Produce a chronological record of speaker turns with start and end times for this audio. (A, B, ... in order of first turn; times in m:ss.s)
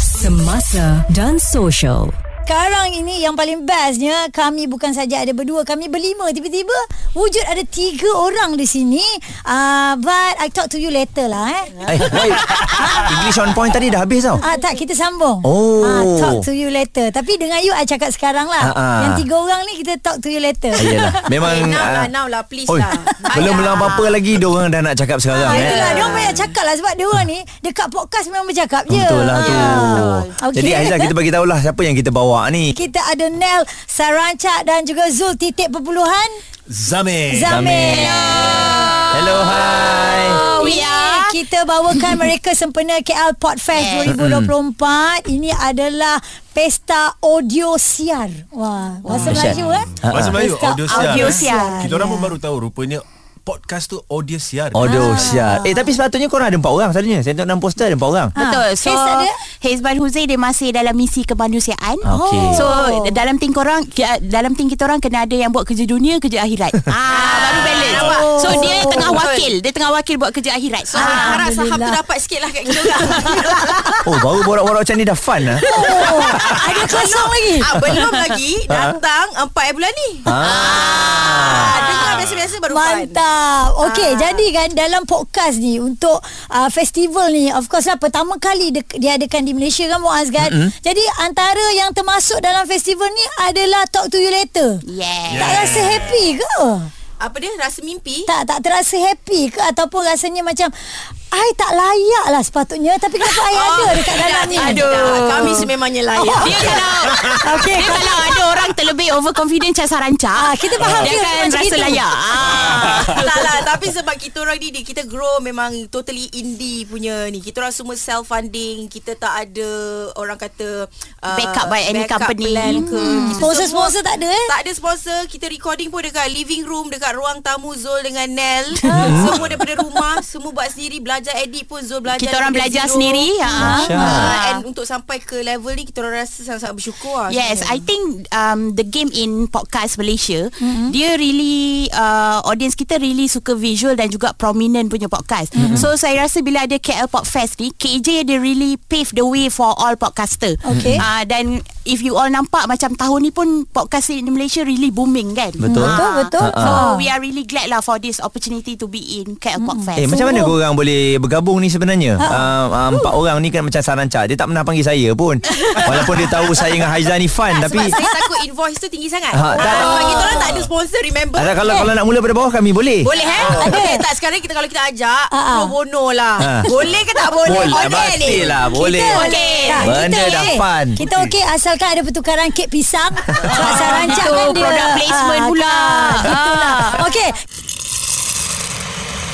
0:00.2-0:02.2 A
0:02.4-0:11.9 B
0:11.8-0:14.4 C
0:12.8-0:13.1 B
0:14.4-0:20.9 B
0:15.4-0:16.4 C
0:18.6-0:19.2 C
0:20.8-0:22.1 C
0:20.8-0:24.1 D
0:22.7-0:26.0 C
0:23.3-0:24.2 E
0:25.3-0:26.5 D
0:25.4-0:31.1 B
0:26.0-0:26.2 E
0:28.9-0:30.0 C
0:29.3-0:30.4 E
0:30.5-0:32.7 C
0:32.7-0:36.4 B
0:36.7-0:37.7 F
0:37.3-0:39.0 B
0:37.5-0:38.3 C
0:38.0-0:39.4 E
0:39.1-0:40.5 C
0:40.2-0:52.3 B
0:40.4-0:41.3 E
0:43.7-0:44.1 E
0:44.2-0:44.4 C
0:49.0-0:49.5 E
0:49.1-0:55.3 F
0:50.0-0:50.4 C
0:50.8-0:52.0 E
0:54.7-0:58.3 C
0:54.8-0:55.9 B
0:58.4-0:59.3 B
0:58.4-1:11.4 E
1:02.1-1:02.6 C
1:02.1-1:03.2 B
1:07.0-1:09.5 D
1:07.9-1:09.2 B
1:10.9-1:14.2 D
1:11.0-1:12.0 B
1:13.0-1:14.0 B
1:14.0-1:15.6 C
1:15.6-1:17.7 B
1:15.7-1:23.2 D
1:18.7-1:19.0 C
1:20.3-1:21.6 C
1:20.4-1:22.3 E
1:22.7-1:36.9 B
1:23.8-1:24.4 D
1:34.8-1:35.8 E
1:35.3-1:36.2 F
1:37.2-1:38.3 D
1:38.3-1:45.6 B
1:43.3-1:47.3 D
1:44.6-1:53.2 E
1:47.3-1:48.1 B
1:50.4-1:52.0 B
1:50.8-1:51.6 D
1:52.4-2:13.3 D
1:52.5-1:53.2 F
2:01.3-2:03.5 E
2:02.8-2:04.5 B
2:08.8-2:09.4 B
2:09.0-2:09.3 C
2:12.1-2:14.6 E
2:13.5-2:14.3 B
2:13.6-2:14.2 C
2:14.0-2:17.8 D
2:17.3-2:40.2 E
2:20.6-2:20.9 B
2:25.6-2:25.8 B
2:30.6-2:31.0 B
2:35.6-2:36.0 C
2:35.7-2:37.0 B
2:36.5-2:36.8 C
2:39.6-2:40.6 B
2:40.0-2:48.0 C
2:42.2-2:42.5 B
2:45.6-2:46.7 D
2:47.5-2:51.9 D
2:49.3-2:50.4 C
2:49.6-2:50.4 E
2:51.4-2:53.6 C
2:51.6-2:51.9 B
2:53.0-2:58.6 D
2:53.1-2:53.6 E
2:53.5-2:54.0 B
2:55.3-2:55.7 B
2:56.4-2:56.7 C
2:57.5-2:59.2 C
2:58.6-3:07.3 B
2:59.1-2:59.9 E
2:59.1-3:00.4 D
2:59.9-3:01.0 C
3:03.5-3:07.1 E
3:03.6-3:04.6 D